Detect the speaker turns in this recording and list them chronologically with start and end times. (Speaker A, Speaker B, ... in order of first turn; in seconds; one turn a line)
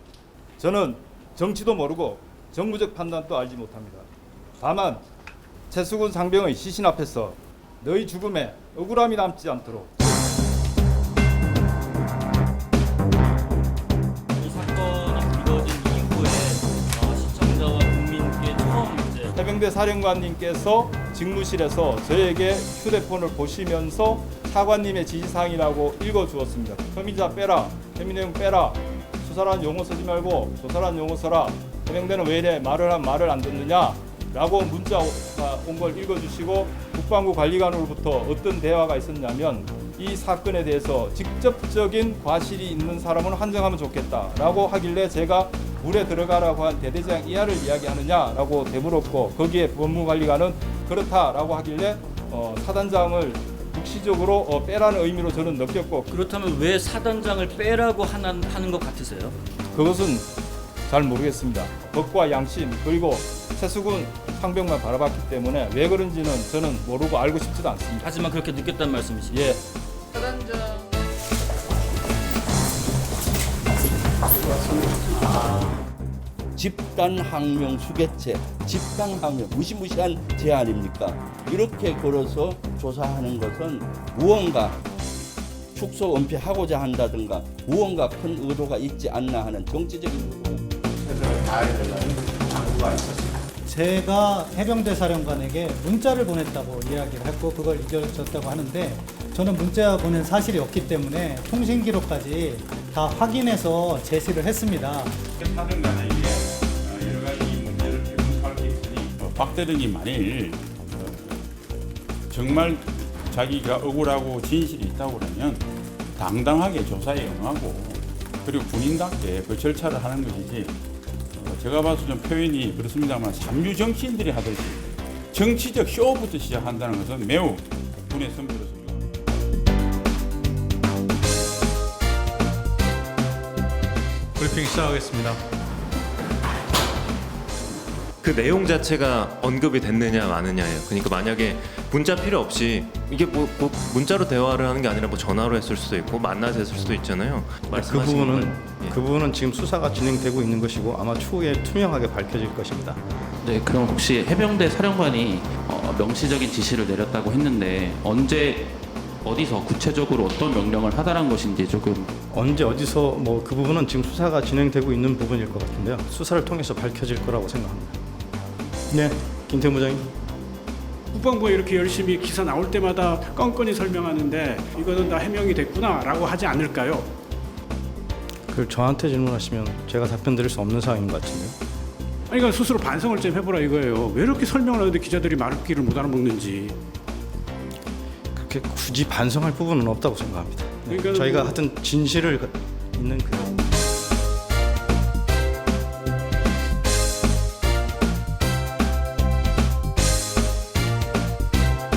Speaker A: 0.6-4.1
Speaker A: 4.6-5.0
Speaker A: 5.7-10.1
Speaker B: 14.3-19.3
Speaker A: 19.4-56.1
Speaker B: 56.1-59.4
Speaker A: 59.7-60.3
Speaker A: 60.9-68.1
Speaker B: 68.0-69.6
Speaker A: 69.3-69.6
Speaker C: 76.5-84.8
Speaker C: 85.7-93.1
Speaker D: 93.6-105.1
Speaker E: 105.4-111.5
Speaker E: 112.3-120.8
Speaker E: 121.3-129.2
Speaker F: 134.4-135.3
Speaker G: 138.2-149.0
Speaker F: 147.7-153.0
Speaker H: 153.4-162.1
Speaker F: 162.3-167.9
Speaker F: 168.9-170.1
Speaker I: 171.1-177.1
Speaker F: 178.5-181.6
Speaker I: 182.3-186.8
Speaker F: 188.3-193.7
Speaker I: 190.9-191.5